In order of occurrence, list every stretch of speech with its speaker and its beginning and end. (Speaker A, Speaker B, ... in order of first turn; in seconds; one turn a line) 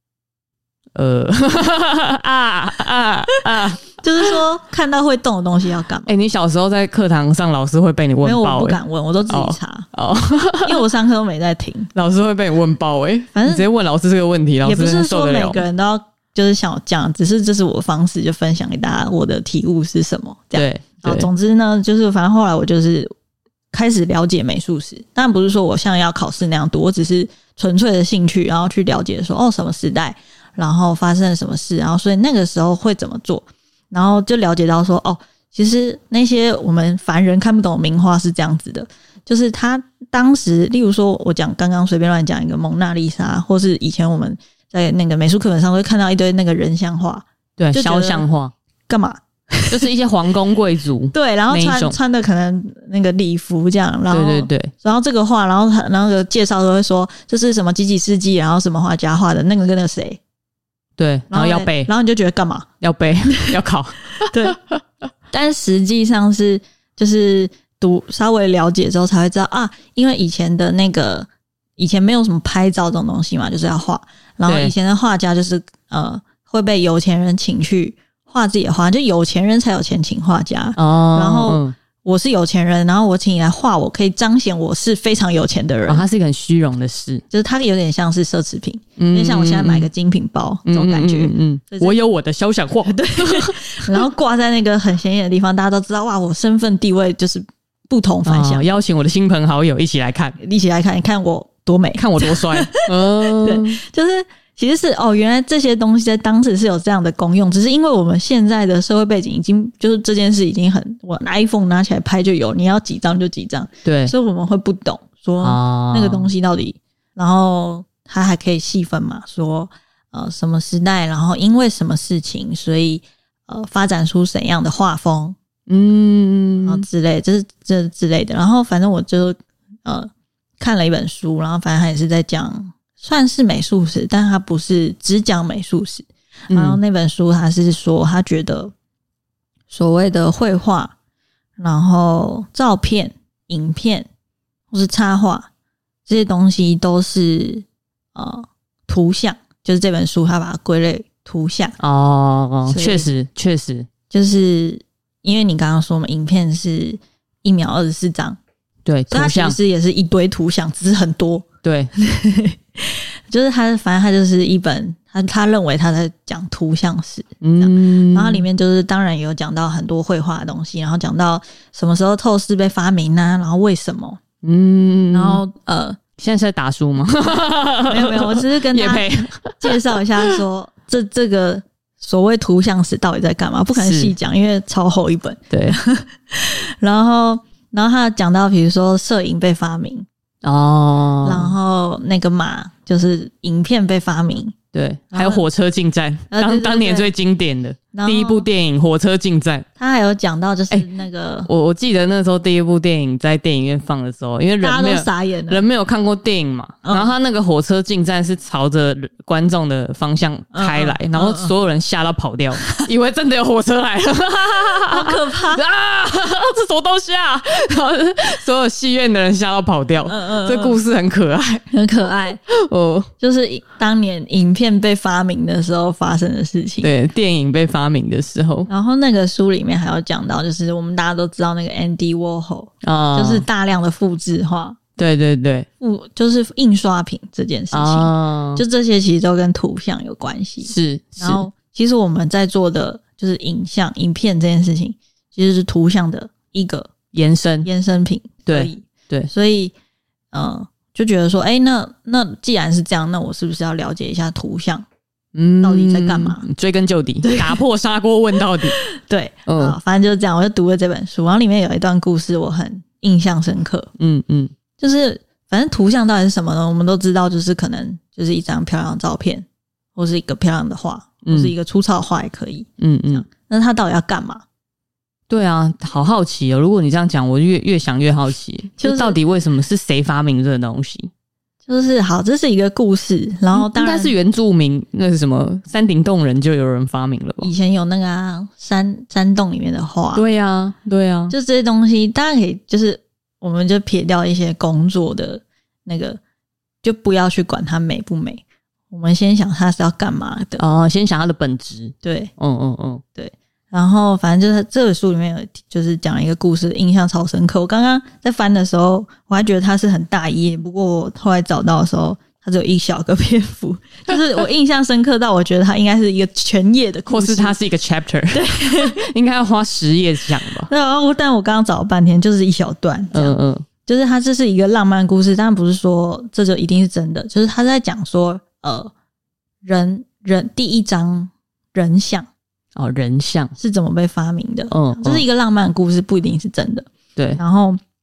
Speaker A: 0.9-3.9
Speaker B: 4.0-6.1
Speaker A: 6.1-10.8
Speaker B: 8.2-9.9
Speaker B: 10.6-11.9
Speaker A: 11.9-15.6
Speaker B: 13.3-13.7
Speaker B: 14.6-23.1
Speaker A: 20.5-21.3
Speaker B: 23.7-48.2
Speaker A: 47.6-48.5
Speaker B: 48.9-49.9
Speaker A: 49.7-52.0
Speaker B: 51.1-60.2
Speaker A: 54.1-54.7
Speaker A: 61.0-61.9
Speaker B: 61.3-62.7
Speaker A: 62.8-64.3
Speaker B: 64.2-64.6
Speaker B: 65.3-86.0
Speaker A: 74.5-74.8
Speaker A: 80.8-81.8
Speaker A: 85.9-87.2
Speaker B: 87.3-92.0
Speaker A: 89.0-89.9
Speaker A: 90.7-93.8
Speaker B: 92.9-98.7
Speaker A: 98.2-100.4
Speaker B: 100.4-125.4
Speaker A: 102.0-103.8
Speaker A: 113.8-114.1
Speaker A: 115.4-116.3
Speaker A: 125.7-126.9
Speaker B: 126.6-138.7
Speaker A: 136.5-136.8
Speaker B: 139.7-140.9
Speaker B: 141.6-144.1
Speaker B: 144.7-145.5
Speaker B: 146.1-151.8
Speaker A: 151.8-153.9
Speaker B: 152.7-153.1
Speaker B: 154.1-158.4
Speaker A: 158.8-159.6
Speaker B: 159.1-174.2
Speaker A: 161.6-161.9
Speaker A: 167.4-168.4
Speaker A: 174.4-175.4
Speaker B: 175.1-176.0
Speaker A: 176.2-179.8
Speaker B: 177.9-190.1
Speaker A: 183.8-184.1
Speaker A: 185.5-185.8
Speaker A: 190.4-191.6
Speaker B: 191.2-194.6
Speaker A: 194.7-199.7
Speaker B: 195.1-195.4
Speaker B: 196.3-197.1
Speaker B: 197.9-198.5
Speaker B: 199.8-201.5
Speaker A: 201.5-221.7
Speaker B: 204.6-205.6
Speaker B: 206.8-207.1
Speaker B: 210.5-211.5
Speaker B: 214.9-215.6
Speaker B: 220.1-220.8
Speaker B: 221.7-222.4
Speaker A: 222.5-223.1
Speaker B: 223.2-226.9
Speaker A: 226.8-228.7
Speaker B: 228.7-234.8
Speaker A: 232.8-233.4
Speaker A: 235.0-235.7
Speaker B: 235.8-246.9
Speaker A: 237.7-238.6
Speaker A: 240.6-241.4
Speaker A: 247.1-247.7
Speaker B: 247.6-249.7
Speaker A: 248.5-249.3
Speaker B: 250.3-254.9
Speaker A: 255.3-258.8
Speaker B: 255.6-256.4
Speaker B: 257.2-257.6
Speaker B: 258.6-263.9
Speaker A: 259.5-259.8
Speaker A: 264.0-264.5
Speaker B: 264.8-274.4
Speaker A: 271.2-271.5
Speaker A: 272.8-273.2
Speaker A: 275.3-281.1
Speaker B: 278.8-279.2
Speaker B: 281.7-284.1
Speaker A: 283.5-287.5
Speaker B: 287.4-290.2
Speaker A: 290.1-291.3
Speaker B: 291.3-296.2
Speaker B: 296.8-300.6
Speaker A: 300.6-303.0
Speaker B: 302.0-302.3
Speaker B: 303.2-317.5
Speaker A: 317.1-320.7
Speaker B: 318.3-319.0
Speaker B: 320.7-328.9
Speaker A: 323.1-323.7
Speaker B: 329.6-332.3
Speaker A: 332.8-333.6
Speaker B: 333.6-337.8
Speaker A: 334.7-335.2
Speaker A: 337.2-337.4